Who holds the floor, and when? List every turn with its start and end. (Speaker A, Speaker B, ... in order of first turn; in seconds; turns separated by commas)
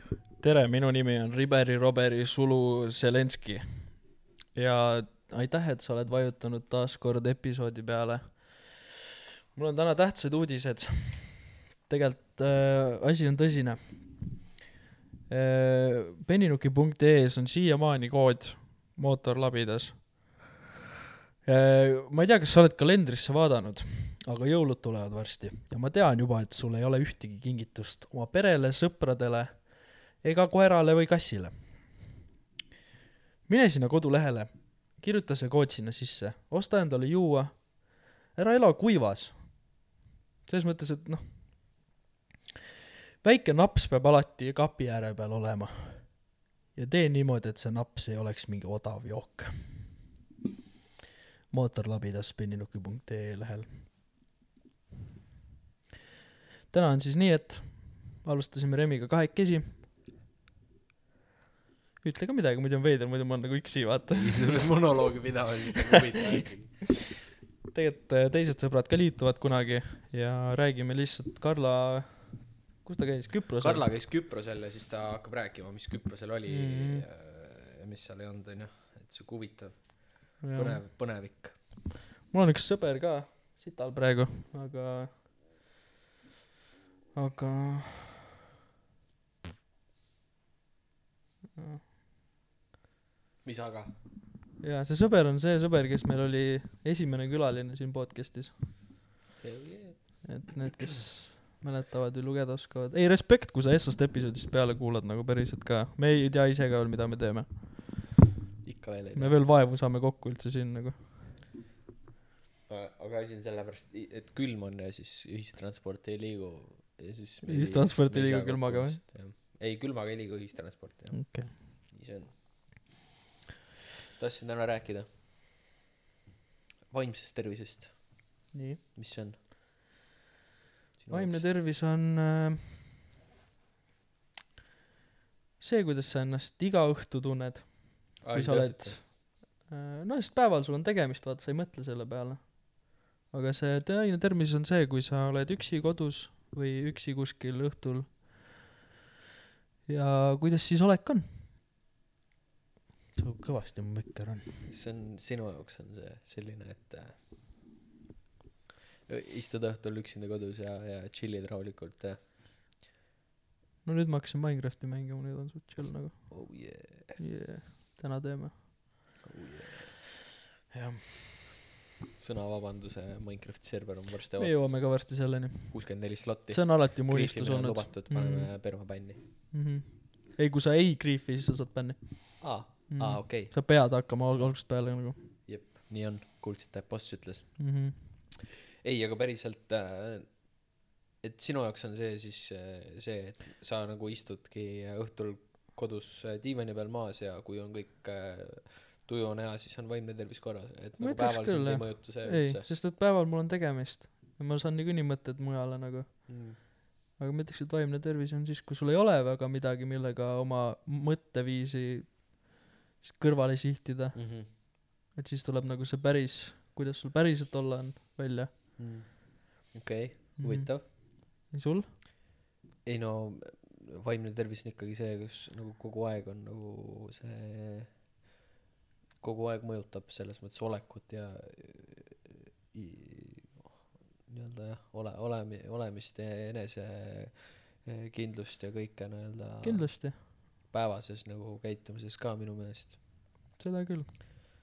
Speaker A: 0.4-8.8, Speaker A: 9.5-14.2, Speaker A: 15.3-20.4, Speaker A: 21.4-31.9, Speaker A: 33.5-39.9, Speaker A: 40.4-41.8, Speaker A: 43.2-49.9, Speaker A: 51.5-53.9, Speaker A: 56.7-59.8, Speaker A: 62.0-64.8, Speaker B: 64.1-66.9, Speaker A: 67.7-73.9, Speaker B: 73.6-81.6, Speaker A: 76.5-77.0, Speaker A: 80.4-80.8, Speaker A: 82.3-85.2, Speaker A: 87.1-88.2, Speaker A: 91.5-91.8, Speaker B: 93.4-93.9, Speaker A: 94.6-98.7, Speaker B: 99.4-100.4, Speaker A: 100.2-108.0, Speaker B: 108.6-109.4, Speaker A: 109.2-111.0, Speaker B: 112.7-122.8, Speaker A: 117.4-119.0, Speaker A: 121.1-121.5, Speaker B: 124.2-125.1, Speaker B: 126.9-129.4, Speaker A: 128.5-128.8, Speaker B: 131.0-131.4, Speaker A: 131.1-132.9, Speaker A: 135.6-148.5, Speaker B: 138.2-139.1, Speaker A: 149.9-151.5, Speaker A: 153.2-154.5, Speaker B: 154.7-157.2, Speaker B: 159.1-162.2, Speaker A: 163.8-169.0, Speaker B: 166.3-167.2, Speaker B: 169.2-169.9, Speaker A: 170.7-171.0, Speaker B: 172.2-174.9, Speaker A: 174.4-178.8, Speaker B: 175.7-179.2, Speaker A: 179.5-185.2, Speaker B: 182.4-183.5, Speaker B: 185.4-188.1, Speaker A: 187.6-188.0, Speaker B: 188.8-202.7, Speaker A: 201.0-218.5, Speaker B: 206.3-206.6, Speaker B: 214.1-214.5, Speaker B: 218.8-220.8, Speaker A: 220.4-221.9, Speaker B: 222.8-228.0, Speaker B: 229.2-243.0, Speaker A: 239.6-240.2, Speaker A: 243.6-244.1